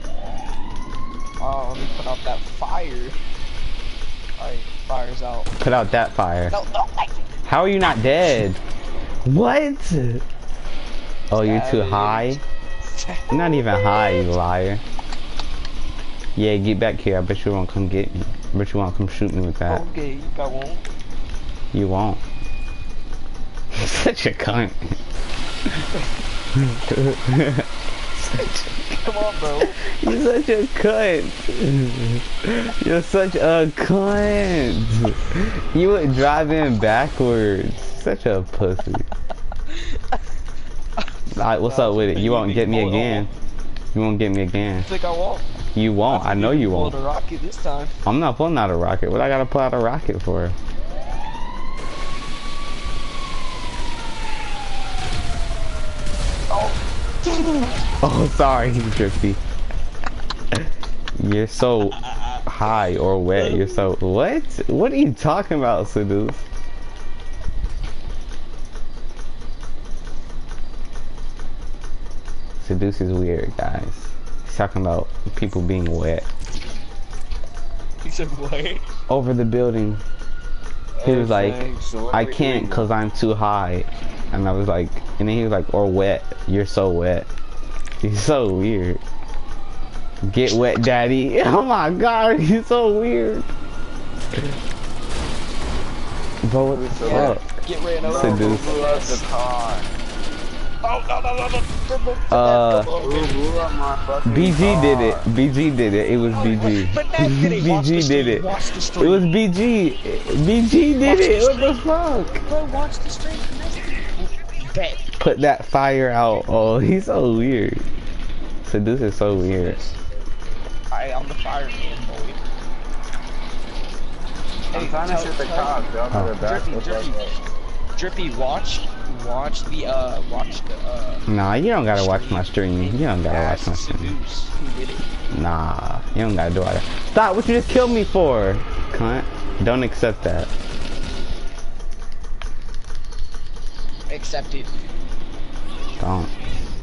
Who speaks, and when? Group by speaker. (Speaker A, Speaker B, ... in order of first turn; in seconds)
Speaker A: 1.4-3.2, 4.4-5.5, 6.5-7.2, 11.4-13.4, 19.7-20.9, 28.4-29.9, 39.7-40.0, 41.6-43.3, 44.9-45.5, 46.1-48.0, 56.5-57.7, 61.9-62.5, 63.4-63.8, 78.0-78.8, 97.0-99.3, 100.8-103.4, 106.3-109.3, 111.0-111.9, 112.5-115.1, 119.4-120.0, 120.9-122.4, 124.7-125.8, 126.4-127.2, 128.0-131.2, 131.9-135.0, 144.1-144.7
Speaker B: 5.6-6.5, 7.5-8.6, 9.2-10.2, 11.3-12.4, 13.3-14.8, 16.4-19.9, 21.7-22.2, 23.7-25.0, 26.6-27.7, 29.8-39.1, 41.3-43.3, 43.9-44.9, 45.8-47.0, 48.0-50.5, 58.0-59.4, 61.2-66.4, 72.6-76.3, 79.1-80.0, 81.0-87.3, 88.0-89.0, 90.2-93.5, 96.4-98.8, 102.3-102.9, 104.2-108.5, 109.0-112.4, 115.2-117.8, 118.7-119.8, 131.3-134.1, 135.3-140.5, 146.0-146.3
Speaker C: 81.0-82.9, 96.7-97.4, 98.0-99.9, 103.0-105.3, 124.7-127.3